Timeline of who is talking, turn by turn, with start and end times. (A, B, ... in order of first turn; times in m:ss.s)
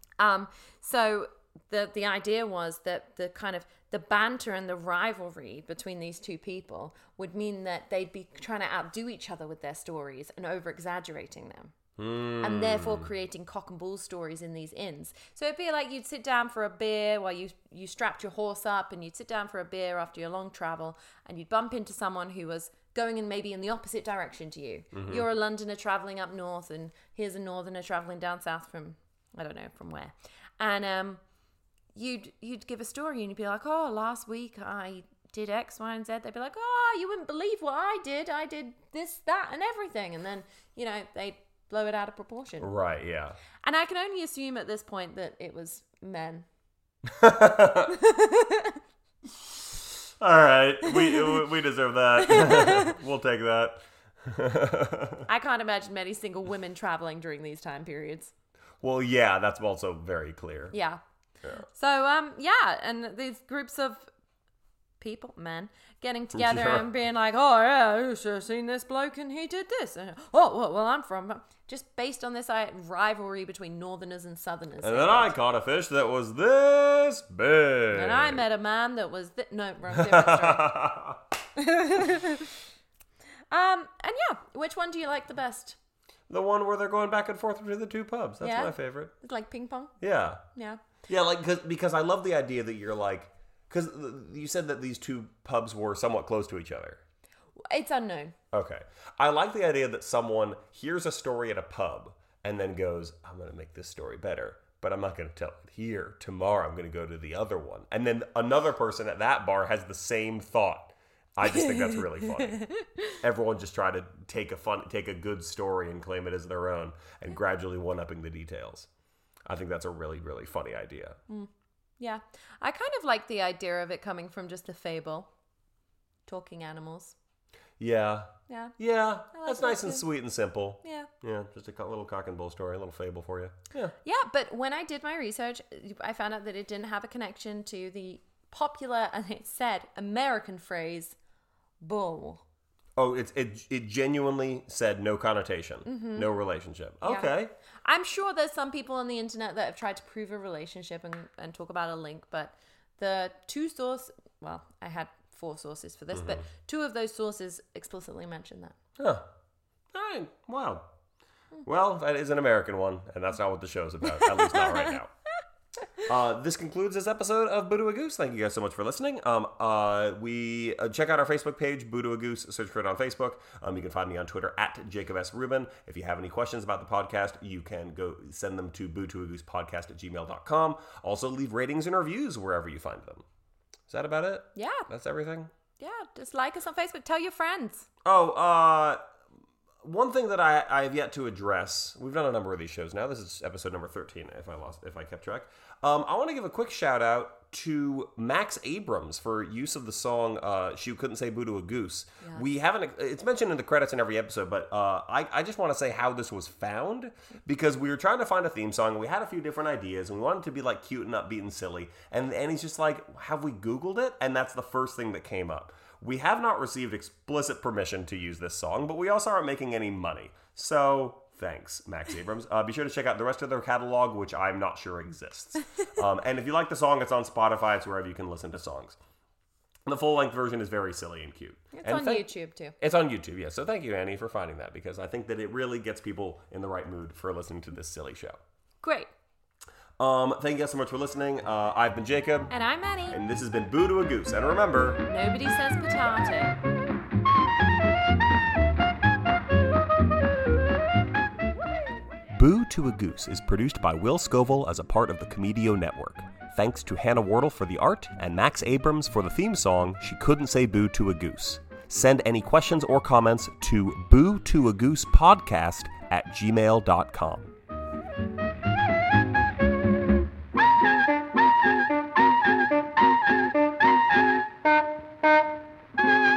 0:00.2-0:11.7 A
0:12.0-0:13.1 B
0:12.4-0:31.2 A
0:24.9-0:25.3 B
0:32.0-0:42.7 A
0:42.6-0:43.4 B
0:43.6-0:46.5 A
0:47.1-0:48.0 B
0:47.9-0:48.8 A
0:49.8-0:55.3 B
0:50.8-0:51.4 A
0:52.2-0:52.9 A
0:55.3-0:58.3 A
0:58.8-1:00.8 B
1:00.7-1:01.0 A
1:01.7-1:04.1 A
1:05.0-1:15.4 A
1:06.3-1:06.9 B
1:14.8-1:18.4 B
1:17.9-1:20.8 A
1:19.9-1:21.2 B
1:21.6-1:22.6 A
1:23.5-1:25.8 A
1:26.3-1:29.1 B
1:28.4-1:30.0 A
1:30.0-1:30.4 B
1:30.6-1:30.8 A
1:31.1-1:37.0 B
1:37.6-1:38.3 A
1:38.5-1:52.7 B
1:51.5-1:53.2 A
1:53.2-1:58.9 B
1:59.5-2:01.2 B
2:02.0-2:05.3 A
2:06.3-2:07.2 A
2:07.8-2:13.9 B
2:08.5-2:08.8 A
2:09.3-2:10.1 A
2:10.8-2:11.1 A
2:14.0-2:21.2 A
2:21.8-2:22.4 A
2:23.0-2:27.5 B
2:25.9-2:26.3 A
2:27.0-2:27.3 A
2:27.8-2:38.8 A
2:36.1-2:36.4 B
2:39.0-2:39.3 B
2:39.9-2:40.9 B
2:41.6-2:45.1 B
2:46.1-3:03.2 B
3:03.9-3:05.5 B
3:04.6-3:04.9 A
3:05.8-3:07.9 A
3:08.0-3:09.0 B
3:09.8-3:49.0 B
3:49.9-3:58.4 B
3:51.7-3:52.8 A
3:58.8-3:59.1 A
4:00.0-4:02.5 B
4:02.5-4:03.2 A
4:03.1-4:05.0 B
4:05.1-4:06.6 A
4:12.3-4:27.5 B